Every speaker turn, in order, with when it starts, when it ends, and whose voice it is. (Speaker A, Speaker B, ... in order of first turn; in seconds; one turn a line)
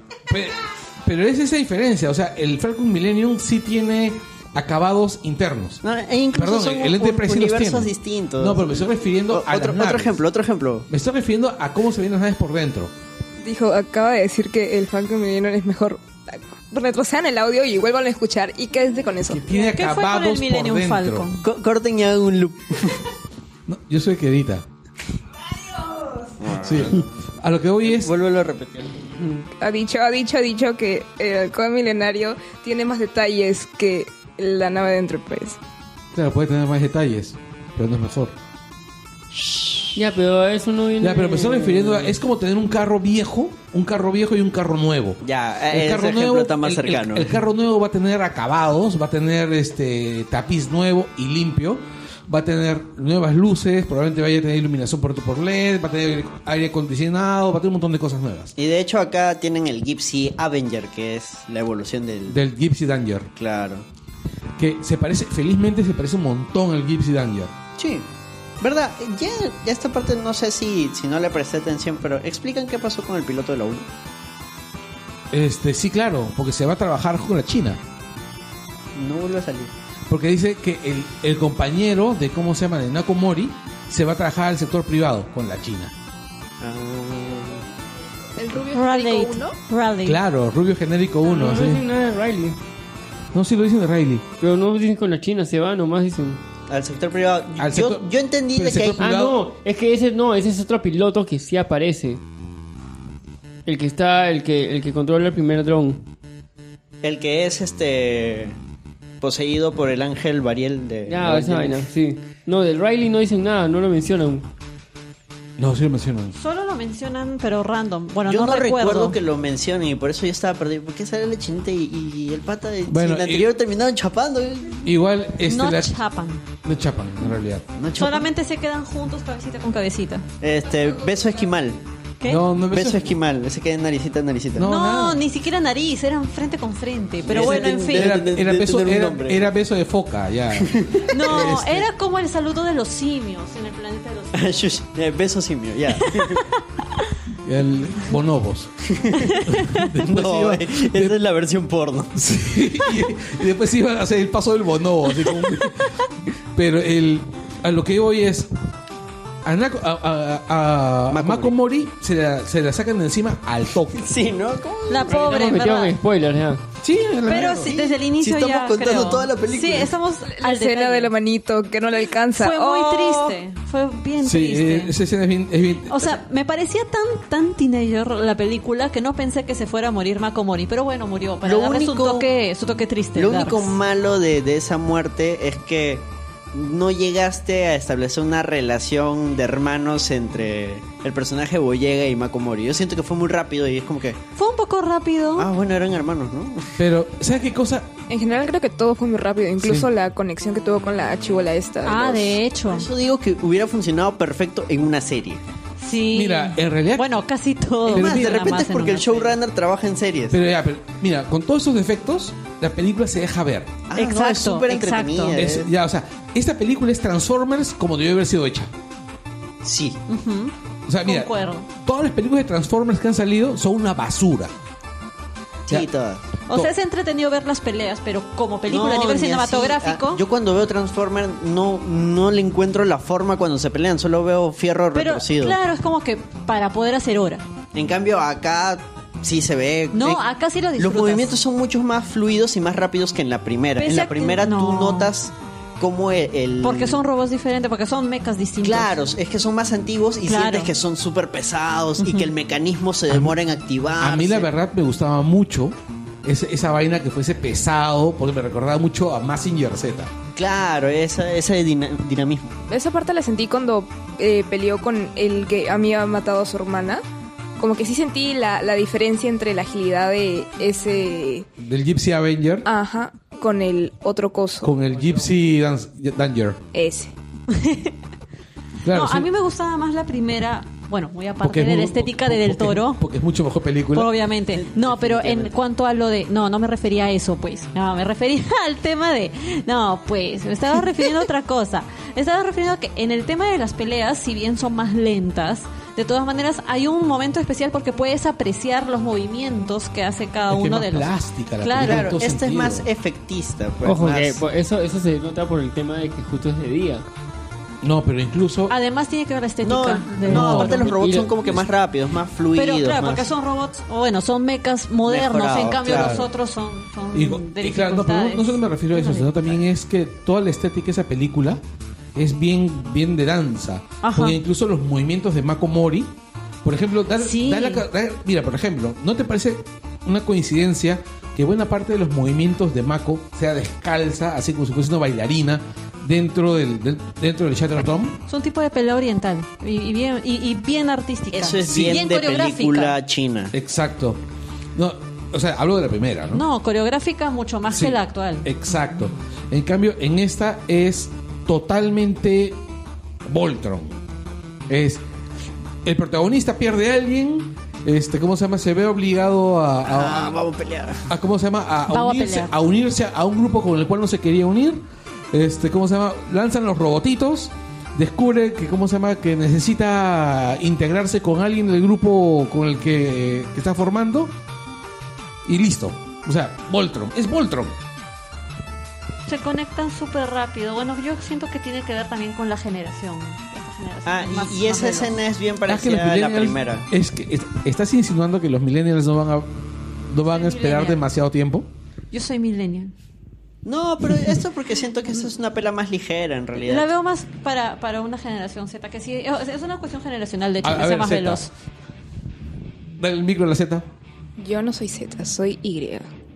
Speaker A: 0.3-5.8
Speaker B: 5.8-10.9
Speaker A: 6.3-10.2
Speaker A: 10.9-12.9
Speaker C: 13.4-19.4
Speaker A: 19.3-21.3
Speaker D: 19.5-21.4
Speaker B: 21.4-23.0
Speaker A: 23.7-24.6
Speaker B: 26.4-27.2
Speaker A: 26.6-28.1
Speaker B: 27.8-29.4
Speaker C: 29.6-35.6
Speaker A: 36.1-38.3
Speaker B: 39.3-39.9
Speaker E: 39.9-42.2
Speaker A: 41.0-58.5
Speaker B: 45.2-47.3
Speaker B: 58.5-62.4
Speaker A: 62.3-63.3
Speaker B: 63.4-63.9
Speaker A: 64.6-67.5
Speaker B: 67.8-68.1
Speaker B: 68.6-73.9
Speaker A: 75.3-77.8
Speaker B: 78.9-79.7
Speaker A: 80.1-85.9
Speaker B: 86.6-87.6
Speaker C: 88.4-89.5
Speaker D: 88.7-90.2
Speaker A: 90.0-91.8
Speaker E: 91.2-92.6
Speaker A: 93.3-94.2
Speaker E: 94.4-96.4
Speaker B: 96.7-99.0
Speaker A: 97.6-99.4
Speaker E: 99.0-102.2
Speaker E: 103.7-106.0
Speaker B: 107.0-108.6
Speaker B: 109.2-111.8
Speaker E: 111.1-114.5
Speaker A: 115.6-116.3
Speaker D: 116.4-119.2
Speaker B: 118.2-124.8
Speaker A: 122.9-123.5
Speaker A: 124.8-126.0
Speaker D: 125.5-126.4
Speaker A: 126.6-127.7
Speaker B: 127.8-128.3
Speaker D: 127.9-130.2
Speaker B: 130.4-131.8
Speaker D: 132.2-132.5
Speaker A: 132.2-133.1
Speaker B: 132.7-134.7
Speaker A: 134.5-135.2
Speaker D: 134.6-138.2
Speaker B: 137.2-139.4
Speaker A: 137.3-141.9
Speaker B: 140.6-141.5
Speaker D: 141.1-144.6
Speaker B: 144.3-146.4
Speaker D: 146.0-146.5
Speaker A: 147.4-148.9
Speaker B: 148.9-149.4
Speaker D: 149.3-149.9
Speaker A: 149.4-151.2
Speaker B: 150.0-152.2
Speaker A: 152.1-156.0
Speaker A: 156.5-158.5
Speaker A: 159.4-164.1
Speaker B: 161.1-161.5
Speaker B: 163.9-165.2
Speaker D: 164.9-165.9
Speaker E: 165.1-166.6
Speaker A: 166.8-167.7
Speaker D: 167.2-171.1
Speaker B: 167.3-169.9
Speaker C: 170.3-173.4
Speaker D: 172.4-174.9
Speaker A: 174.2-176.2
Speaker D: 175.8-183.8
Speaker B: 181.4-182.2
Speaker B: 183.2-194.2
Speaker D: 194.3-195.5
Speaker B: 195.3-196.8
Speaker A: 196.8-197.9
Speaker C: 198.1-202.2
Speaker A: 199.6-199.9
Speaker D: 201.8-202.9
Speaker B: 202.0-205.4
Speaker D: 205.8-209.4
Speaker A: 206.1-207.1
Speaker A: 207.9-208.5
Speaker B: 207.9-210.4
Speaker A: 210.3-213.8
Speaker B: 213.9-215.7
Speaker D: 213.9-215.4
Speaker A: 215.3-218.7
Speaker B: 219.6-220.0
Speaker D: 220.1-220.5
Speaker A: 220.9-224.5
Speaker D: 221.1-221.7
Speaker B: 225.7-226.3
Speaker D: 226.5-230.2
Speaker B: 228.7-235.6
Speaker D: 234.9-237.4
Speaker B: 237.7-240.2
Speaker D: 239.9-241.3
Speaker B: 240.8-247.0
Speaker D: 243.8-245.1
Speaker D: 246.6-248.9
Speaker B: 248.6-254.5
Speaker D: 250.3-250.7
Speaker D: 252.0-252.3
Speaker A: 253.1-253.3
Speaker A: 254.0-260.1
Speaker B: 260.3-262.5
Speaker C: 262.7-267.0
Speaker C: 267.6-271.5
Speaker A: 271.6-272.7
Speaker C: 272.6-274.7
Speaker A: 274.6-276.6
Speaker C: 276.7-277.1
Speaker D: 277.5-277.9
Speaker A: 278.8-279.3
Speaker D: 278.9-283.0
Speaker A: 281.4-284.1
Speaker D: 283.9-302.1
Speaker B: 284.5-285.5
Speaker A: 300.5-302.9
Speaker B: 301.8-304.4
Speaker E: 303.8-307.1
Speaker A: 307.8-308.7
Speaker D: 308.7-311.0
Speaker B: 309.6-313.3
Speaker A: 310.3-310.8
Speaker E: 310.8-311.4
Speaker D: 312.5-319.6
Speaker B: 315.1-316.3
Speaker A: 315.8-316.3
Speaker A: 317.1-321.6
Speaker A: 322.1-326.1
Speaker D: 324.0-324.4
Speaker A: 326.6-338.2
Speaker D: 327.2-327.8
Speaker D: 338.3-342.9
Speaker B: 341.3-343.5
Speaker A: 343.5-344.2
Speaker A: 344.7-346.4
Speaker D: 346.3-348.5
Speaker A: 347.7-352.6
Speaker A: 353.2-354.0
Speaker A: 354.7-355.0
Speaker A: 355.8-360.4
Speaker B: 359.8-361.1
Speaker A: 361.1-374.3
Speaker D: 361.9-362.5
Speaker A: 375.4-377.8
Speaker D: 379.3-385.2
Speaker B: 384.1-386.9
Speaker A: 385.7-389.5
Speaker A: 390.1-391.7
Speaker D: 390.2-391.0
Speaker D: 392.1-392.9
Speaker B: 393.6-396.9
Speaker D: 396.5-401.5
Speaker A: 400.6-401.4
Speaker A: 403.0-403.9
Speaker C: 404.4-406.1